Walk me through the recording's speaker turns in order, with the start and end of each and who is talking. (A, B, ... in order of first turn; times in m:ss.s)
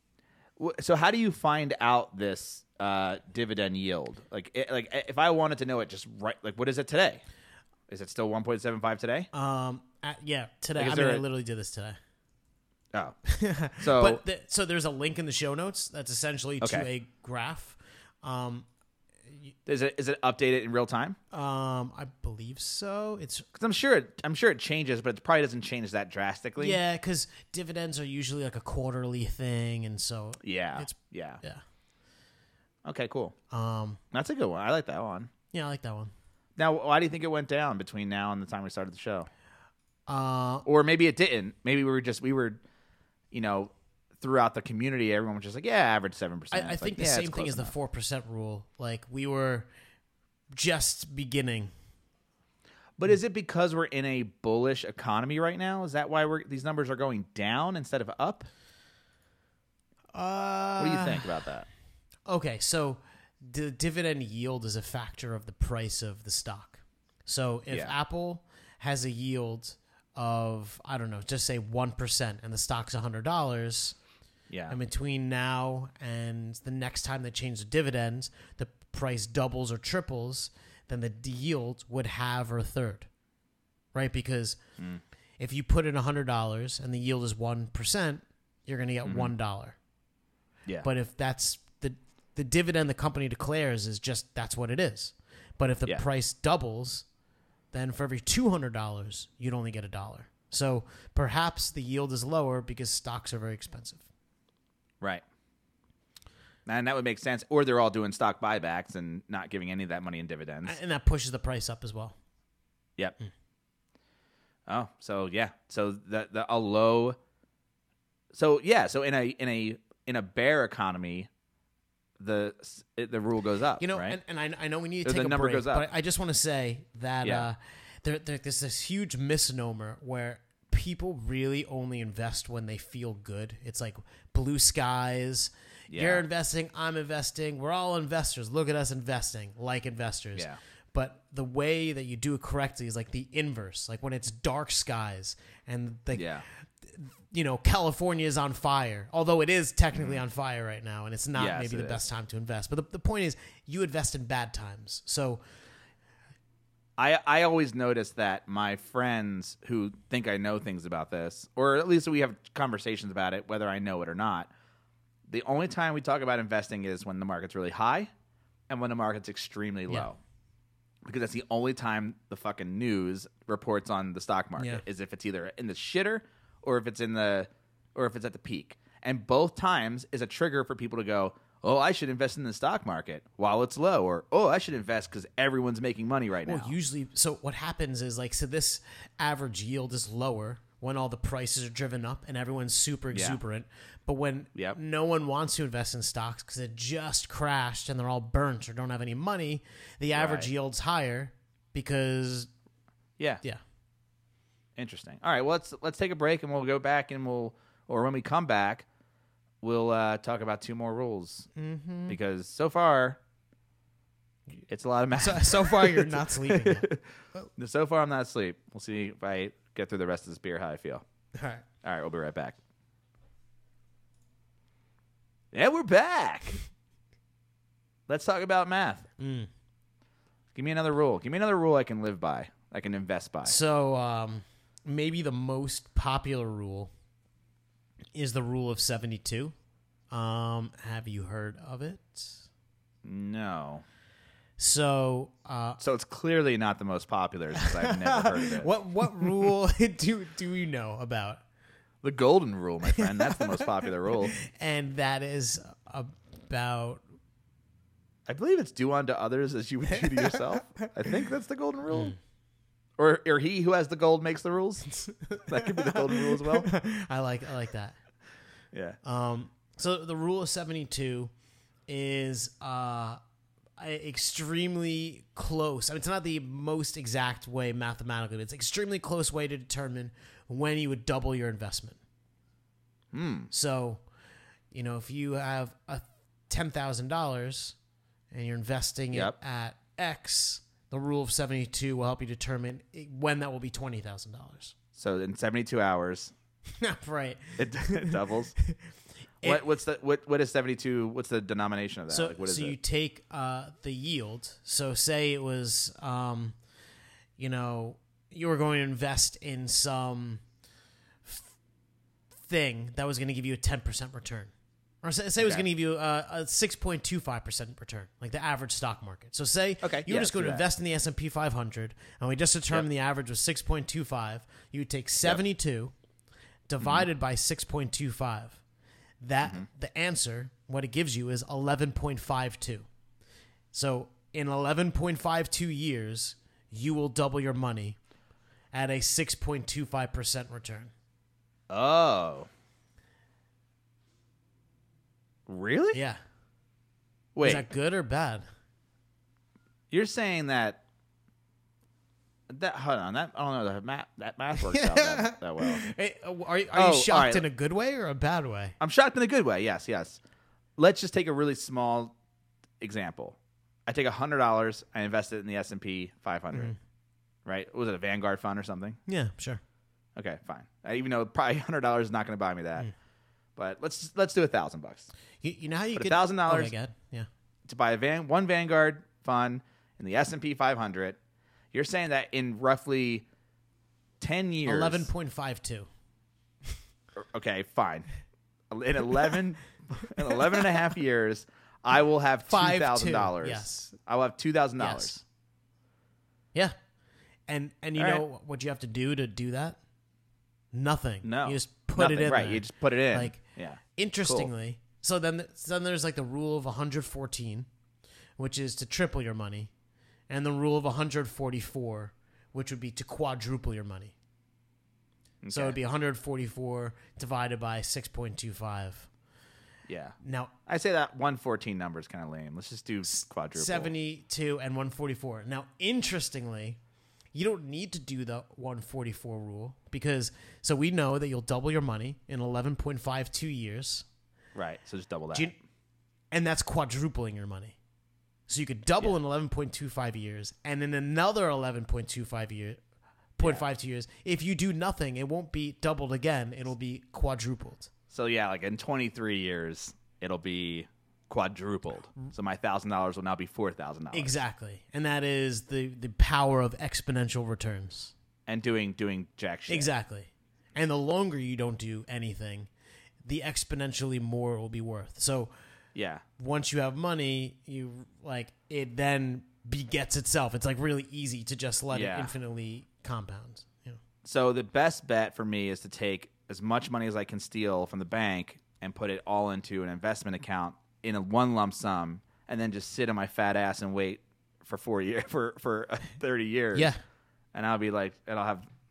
0:00.6-0:07.2 A
0:07.9-0:09.3 A
0:09.3-0:12.0 B
0:10.8-0:11.2 A
0:13.3-0:18.6 B
0:13.8-0:14.2 A
0:16.6-0:16.9 A
0:19.6-0:21.2 A
0:21.3-0:23.5 B
0:23.5-0:26.8 A
0:26.6-0:31.6 B
0:30.4-0:31.4 A
0:32.8-0:33.3 A
0:33.5-0:34.0 B
0:34.1-0:35.3 A
0:35.5-0:36.1 B
0:36.6-0:39.3 A
0:40.1-0:40.6 B
0:40.6-0:42.6 A
0:43.3-0:47.7 A
0:46.5-0:49.7 B
0:50.5-0:51.7 B
0:53.0-0:58.5 A
1:00.1-1:01.3 B
1:00.8-1:01.7 A
1:02.3-1:14.0 B
1:14.5-1:14.8 A
1:14.7-1:23.1 B
1:23.9-1:24.6 B
1:25.4-1:29.8 B
1:29.0-1:29.3 A
1:30.8-1:37.0 B
1:37.7-1:44.0 B
1:46.6-1:50.8 A
1:50.6-1:52.2 B
1:54.7-1:57.2 A
1:58.3-2:01.3 A
2:02.2-2:04.2 A
2:03.8-2:35.4 B
2:05.0-2:05.9 A
2:07.2-2:07.5 A
2:15.9-2:16.2 A
2:26.1-2:26.4 A
2:29.9-2:30.2 A
2:31.3-2:32.0 A
2:37.0-2:44.5 A
2:45.3-2:48.1 A
2:48.7-2:50.2 A
2:51.0-3:06.7 A
2:54.6-2:54.8 B
3:06.4-3:22.5 B
3:13.1-3:13.4 A
3:20.1-3:20.5 A
3:24.8-3:28.8 A
3:29.6-3:31.5 A
3:31.5-3:32.2 B
3:32.1-3:33.2 A
3:34.7-3:37.0 A
3:35.2-3:37.5 B
3:37.6-3:41.0 A
3:41.4-3:41.6 B
3:41.8-3:42.6 A
3:45.5-3:46.6 A
3:48.1-3:49.1 A
3:49.2-3:49.5 B
3:50.5-3:53.6 A
3:53.4-3:56.9 B
3:58.1-3:59.5 B
4:00.1-4:02.4 B
4:03.0-4:03.8 A
4:04.6-4:05.8 B
4:05.8-4:08.7 A
4:07.5-4:11.4 B
4:12.0-4:14.4 A
4:13.0-4:13.6 B
4:14.3-4:17.0 B
4:18.3-4:22.2 A
4:23.0-4:26.7 A
4:25.3-4:28.0 B
4:28.7-4:29.0 A
4:29.0-4:31.3 B
4:31.9-4:33.2 B
4:33.8-4:42.0 B
4:43.1-4:43.5 A
4:43.5-4:44.0 B
4:44.7-4:47.8 B
4:48.3-4:54.7 B
4:54.9-4:56.3 A
4:56.8-4:58.8 B
4:57.6-4:58.5 A
4:59.4-5:02.8 A
5:02.1-5:06.6 B
5:07.4-5:10.4 B
5:11.2-5:11.5 B
5:12.4-5:14.5 B
5:15.0-5:25.9 B
5:15.4-5:15.6 A
5:19.8-5:20.6 A
5:26.7-5:28.6 B
5:29.2-5:32.9 B
5:33.7-5:38.0 B
5:38.7-5:40.9 B
5:41.7-5:42.5 A
5:45.5-5:46.0 A
5:45.9-5:46.2 B
5:47.3-5:47.6 A
5:47.4-5:48.4 B
5:49.9-5:50.8 A
5:52.5-5:55.8 A
5:54.6-5:58.7 B
5:56.7-5:57.4 A
5:58.8-6:00.2 A
6:00.8-6:02.1 A
6:02.8-6:06.7 A
6:07.4-6:09.0 A
6:09.1-6:09.6 B
6:10.2-6:12.9 A
6:13.6-6:15.1 A
6:15.4-6:17.3 B
6:15.9-6:16.7 A
6:17.6-6:21.2 A
6:21.7-6:23.2 A
6:24.2-6:25.1 A
6:24.6-6:25.9 B
6:27.2-6:28.1 A
6:28.7-6:35.2 A
6:32.5-6:34.0 B
6:34.8-6:35.2 B
6:37.5-6:39.8 B
6:38.0-6:38.2 A
6:40.7-6:43.4 B
6:41.2-6:44.5 A
6:43.9-6:47.7 B
6:48.4-6:49.7 B
6:50.3-6:54.1 B
6:55.4-6:55.8 A
6:55.5-6:59.1 B
6:59.9-7:00.2 A
7:00.2-7:00.5 B
7:00.7-7:03.9 A
7:03.1-7:06.8 B
7:07.3-7:14.0 B
7:14.5-7:15.5 A
7:16.3-7:17.8 B
7:18.5-7:22.8 B
7:23.4-7:27.9 B
7:28.1-7:34.3 A
7:34.1-7:38.1 B
7:38.5-7:39.9 A
7:39.7-7:42.7 B
7:43.2-7:45.5 B
7:45.9-7:46.2 A
7:46.4-7:54.0 B
7:51.9-7:52.3 A
7:54.2-8:06.9 A
8:06.7-8:07.0 B
8:07.5-8:08.7 A